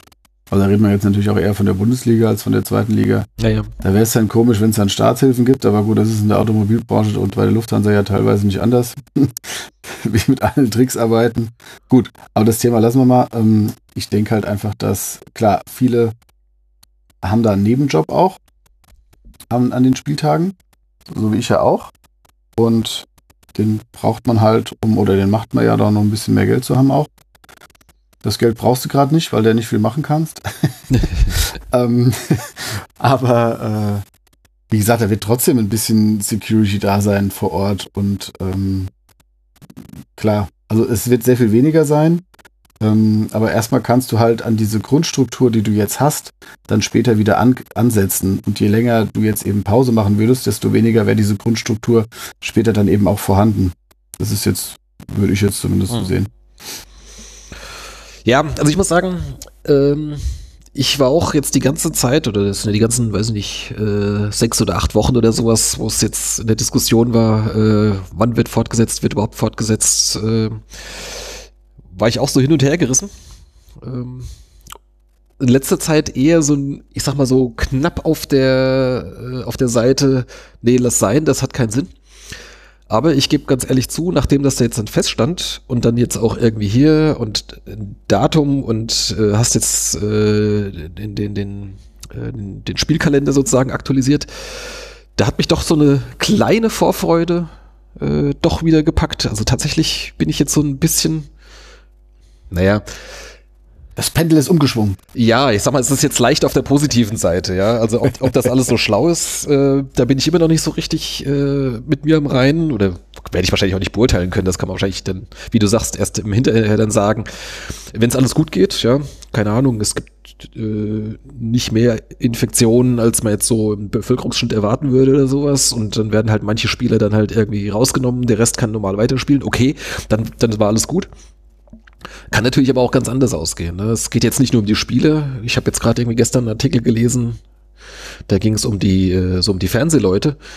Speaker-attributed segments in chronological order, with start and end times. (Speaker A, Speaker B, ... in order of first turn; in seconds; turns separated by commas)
Speaker A: 0.5-3.3, Speaker B: 3.4-3.7, Speaker A: 3.8-16.1, Speaker A: 17.2-18.4, Speaker A: 19.5-20.6, Speaker A: 21.1-21.9, Speaker A: 22.6-27.1, Speaker A: 28.2-34.0, Speaker B: 30.9-31.4, Speaker A: 34.7-38.9, Speaker A: 40.1-42.2, Speaker A: 42.8-56.3, Speaker B: 58.2-73.1, Speaker B: 73.8-74.3, Speaker B: 75.4-81.9, Speaker B: 82.9-101.3, Speaker B: 102.5-103.2, Speaker A: 104.0-105.0, Speaker B: 105.1-131.1, Speaker B: 132.3-137.4, Speaker B: 138.3-140.4